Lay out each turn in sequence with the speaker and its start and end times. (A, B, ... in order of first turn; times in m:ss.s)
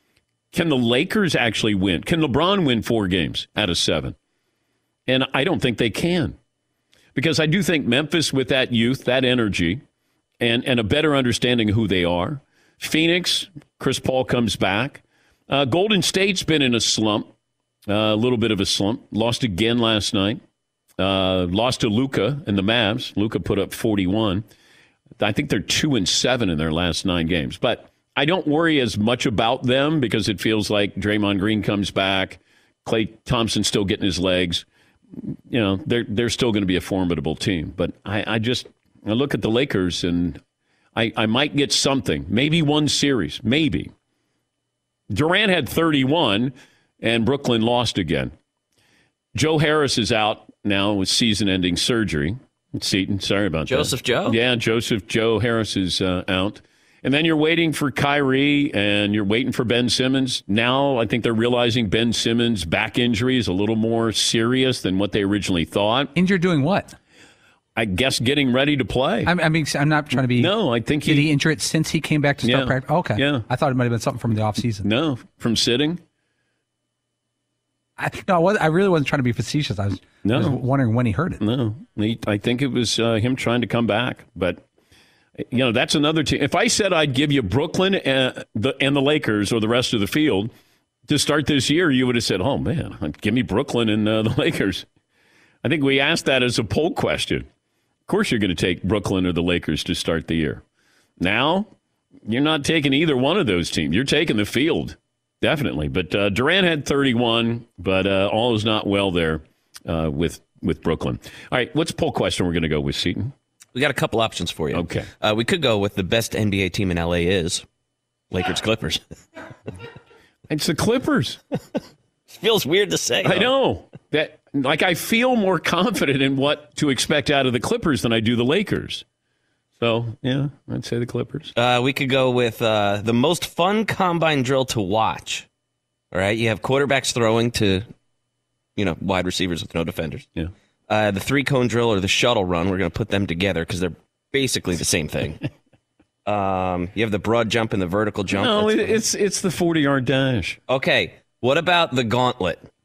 0:00.5-0:04.2 A
0:05.1-0:06.4 A
0:07.2-0:09.8 A
0:10.4-0:17.3 A
0:17.9-0:20.4 A
0:21.0-0:24.4 A
0:25.2-0:34.6 A
0:35.2-0:40.4 A
0:41.0-0:43.9 A
0:45.1-0:48.3 A
0:49.3-1:06.1 A
0:53.7-0:54.4 B
1:06.2-1:07.0 C
1:07.8-1:09.3 A
1:09.2-1:14.9 C
1:10.3-1:11.3 A
1:12.4-1:13.4 A
1:14.8-1:16.0 A
1:18.0-1:21.4 C
1:20.2-1:20.6 A
1:21.4-1:24.6 A
1:25.5-1:30.5 A
1:31.1-1:34.8 A
1:35.6-1:37.5 A
1:38.1-1:40.6 A
1:41.2-1:41.7 A
1:42.3-1:53.3 A
1:53.8-1:57.6 B
1:54.7-1:55.1 A
1:58.3-1:59.0 B
2:00.5-2:01.4 A
2:02.3-2:03.5 B
2:03.2-2:09.0 A
2:09.8-2:11.5 A
2:11.6-2:15.5 B
2:16.1-2:17.9 B
2:18.8-2:20.3 B
2:20.9-2:25.4 B
2:26.3-2:29.0 B
2:28.3-2:30.6 A
2:30.7-2:32.6 B